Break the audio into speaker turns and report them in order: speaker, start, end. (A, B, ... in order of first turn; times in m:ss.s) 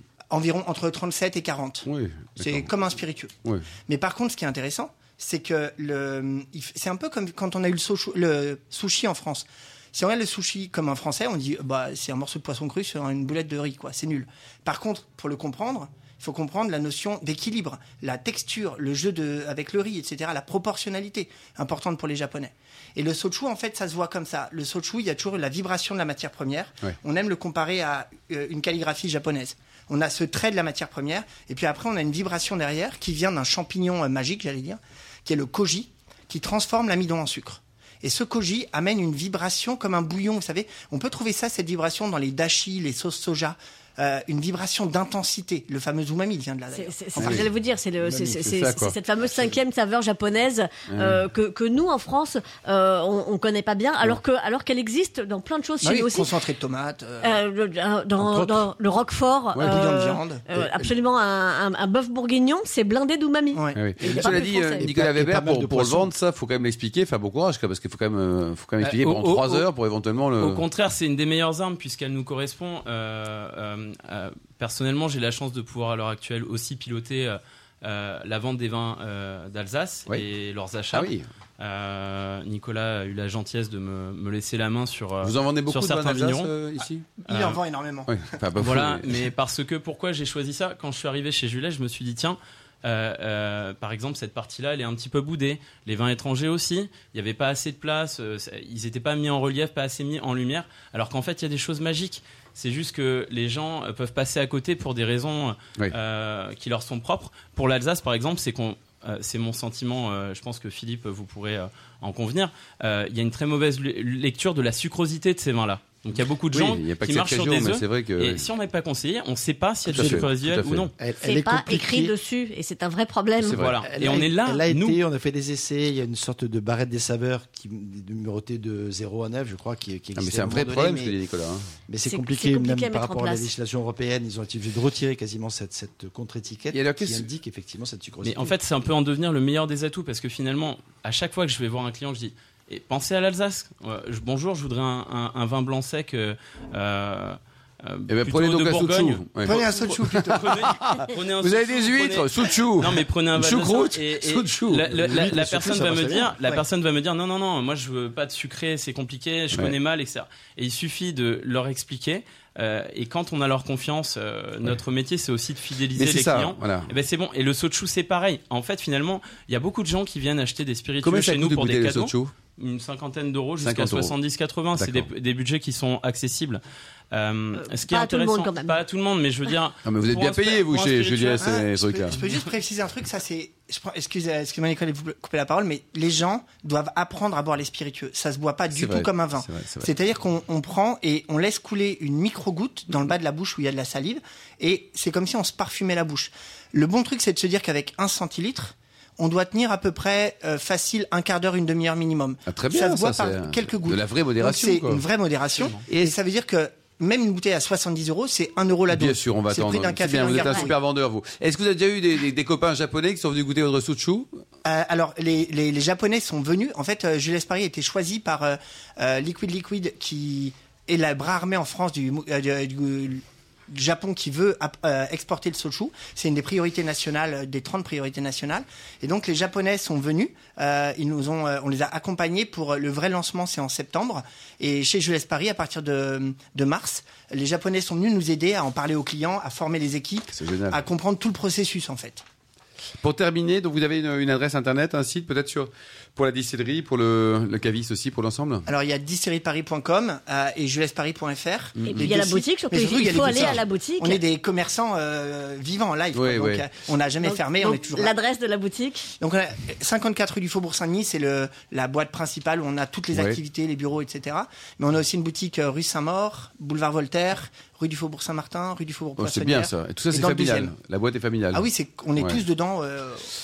0:00.3-0:03.3 A
0:01.8-0:02.7 B
0:03.8-0:47.5 A
0:46.7-0:56.3 C
0:47.2-0:47.5 B
0:48.1-0:49.0 B
0:50.9-0:51.2 B
0:55.8-0:57.4 A
0:57.2-1:04.8 C
0:58.2-0:58.6 D
0:59.5-0:59.8 B
0:59.6-1:00.4 A
1:00.5-1:00.9 D
1:03.5-1:03.8 A
1:03.8-1:10.6 B
1:04.0-1:06.1 D
1:08.8-1:09.7 E
1:10.4-1:26.5 E
1:20.9-1:21.3 B
1:25.2-1:27.1 B
1:27.2-1:28.3 A
1:27.3-1:27.6 E
1:28.1-1:29.2 B
1:28.6-2:00.9 E
1:56.5-1:58.4 B
1:59.9-2:00.3 D
1:59.9-2:00.9 B
2:01.0-2:02.1 D
2:01.2-2:03.6 C
2:03.4-2:05.0 E
2:03.4-2:03.7 B
2:03.8-2:11.1 D
2:10.2-2:11.7 B
2:11.9-2:18.5 D
2:12.0-2:13.5 C
2:16.7-2:17.3 B
2:18.2-3:01.5 E
2:28.1-2:34.9 B
2:29.4-2:30.7 A
2:34.9-2:36.3 D
2:45.9-2:46.9 B
2:51.0-2:52.3 B
2:53.6-2:54.1 B
2:54.8-2:55.1 B
2:57.6-2:58.8 C
2:59.8-3:02.2 B
3:01.4-3:30.7 A
3:08.7-3:09.9 B
3:22.5-3:25.0 B
3:25.9-3:26.1 B
3:28.9-3:34.3 B
3:30.3-3:30.7 C
3:34.6-4:02.2 A
4:00.3-4:00.8 B
4:03.0-4:08.6 B
4:08.7-4:18.2 A
4:11.8-4:12.2 B
4:11.8-4:14.2 C
4:16.1-4:16.6 B
4:17.2-4:19.1 C
4:19.2-4:30.7 A
4:23.1-4:23.4 B
4:29.2-4:31.6 B
4:31.5-4:33.3 A